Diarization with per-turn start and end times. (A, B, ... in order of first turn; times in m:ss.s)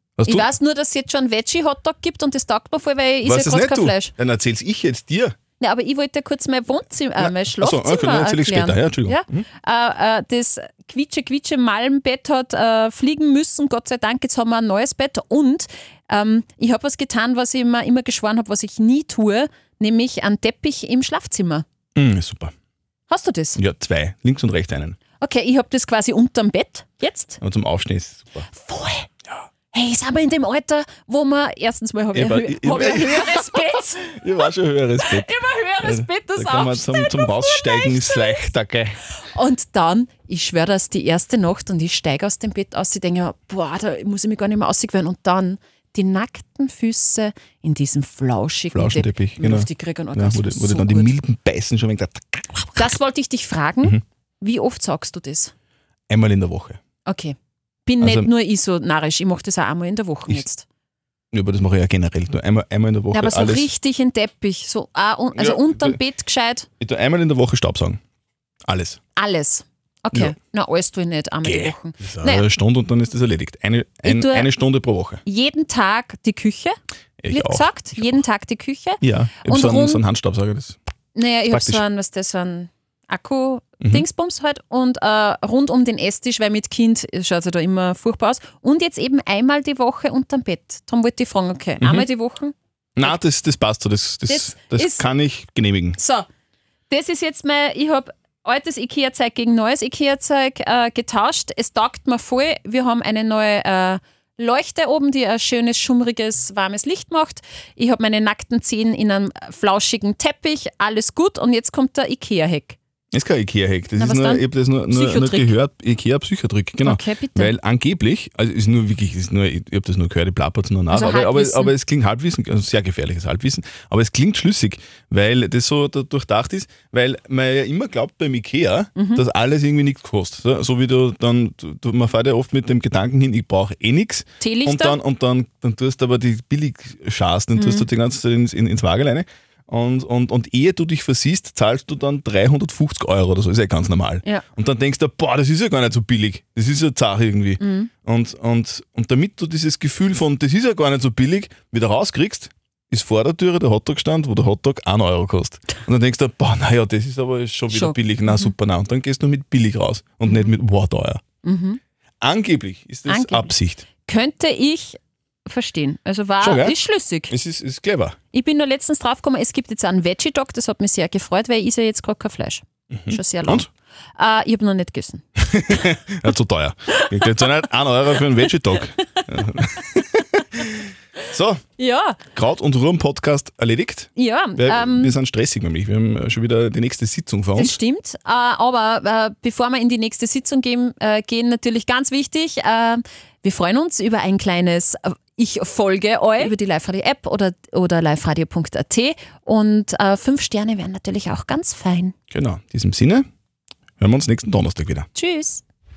0:00.2-0:00.5 A
0:00.2-0:04.1 B
0:03.2-0:05.4 A
0:05.6-0:21.6 B
0:07.2-0:09.4 A
0:22.0-0:22.5 A
0:23.1-0:23.6 B
0:23.6-0:25.0 A
0:25.2-0:27.4 B
0:27.4-0:28.5 A
0:28.5-0:29.1 B
0:29.7-0:34.2 B
0:32.1-0:39.0 A
0:35.0-0:38.5 B
0:39.2-0:51.1 B
0:48.7-0:52.9 A
0:52.8-0:55.5 B
0:56.1-0:56.8 A
0:57.0-0:57.4 B
0:57.9-1:00.6 B
0:58.0-0:58.3 A
1:01.3-1:03.7 A
1:03.1-1:06.7 B
1:05.4-1:06.0 A
1:06.8-1:08.0 A
1:08.7-1:09.0 A
1:09.2-1:12.5 B
1:11.4-1:15.2 A
1:14.0-1:14.5 B
1:15.2-1:16.8 B
1:17.2-1:18.2 A
1:17.3-1:20.0 B
1:19.0-1:20.8 A
1:21.2-1:33.2 B
1:21.5-1:21.8 A
1:23.8-1:24.1 A
1:31.8-1:32.1 A
1:33.0-1:36.0 A
1:34.3-1:35.0 B
1:36.0-1:36.3 B
1:36.9-1:52.8 B
1:53.1-2:41.2 A
1:54.0-1:55.6 B
1:56.8-1:57.6 B
2:00.9-2:01.8 B
2:09.0-2:09.2 B
2:14.4-2:15.0 B
2:17.6-2:17.9 B
2:27.6-2:27.9 B
2:37.7-2:38.5 B
2:41.4-2:41.8 B
2:42.2-2:43.8 A
2:43.1-2:47.3 B
2:46.4-2:46.8 A
2:47.3-2:48.2 A
2:48.3-2:55.8 B
2:52.9-2:53.7 A
2:55.4-3:00.6 A
2:57.0-2:57.5 B
2:59.0-3:00.8 B
3:01.3-3:01.6 A
3:01.8-3:02.2 B
3:02.3-3:07.8 A
3:04.2-3:05.2 B
3:07.5-3:22.2 B
3:22.3-3:23.2 A
3:24.0-3:25.1 A
3:25.2-3:25.6 B